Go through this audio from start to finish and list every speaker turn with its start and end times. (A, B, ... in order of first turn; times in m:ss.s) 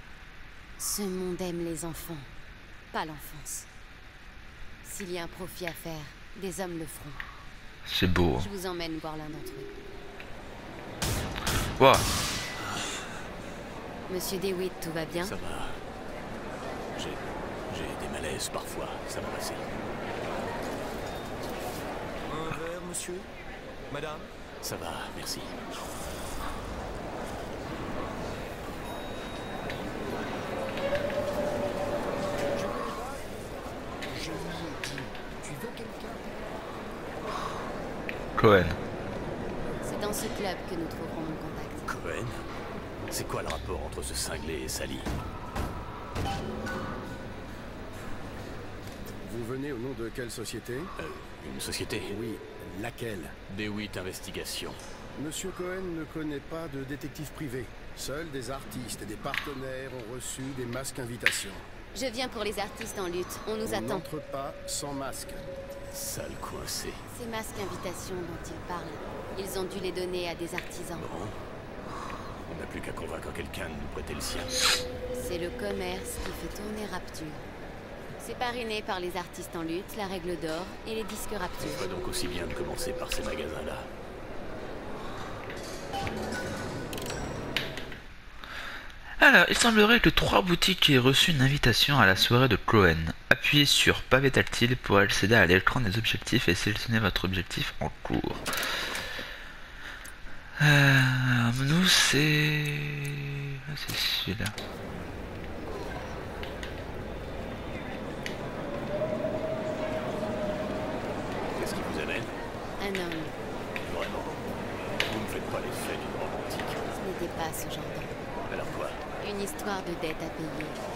0:00.8-0:02.3 A
0:02.9-0:03.7 A
0:04.8-0:07.2 A
0:07.9-0:08.5 B
0:08.4-0:09.7 A
0:11.8-0:12.0 B
0:14.1-0:15.4 A
0:15.2-0:15.8 C
0:17.0-0:19.7 C
0:22.3-0:23.3 D
0:23.9-0:24.3 D
0:24.6-0:25.5 C
0:32.5-0:33.3 D
0:34.0-0:37.2 D
0:38.4-0:38.8 B
0:39.8-0:41.9 A
0:41.9-0:42.4 C
0:43.1-0:45.1 C
0:49.2-0:50.9 E
0:51.0-0:52.1 C
0:52.0-0:53.4 E
0:53.5-0:54.8 C
0:55.2-1:01.7 E
1:01.9-1:04.1 A
1:03.6-1:05.5 E
1:05.9-1:07.0 C
1:07.1-1:11.1 A
1:11.0-1:11.4 C
1:12.5-1:14.5 C
1:15.1-1:17.5 A
1:18.2-1:21.9 A
1:21.6-1:23.9 C
1:29.2-1:38.4 B
1:40.6-1:44.6 B
1:51.5-1:52.4 C
1:52.8-1:53.4 A
1:53.8-1:54.5 C
1:55.1-1:56.9 C
1:57.0-1:58.2 A
1:58.5-1:59.0 C
1:59.2-2:00.8 A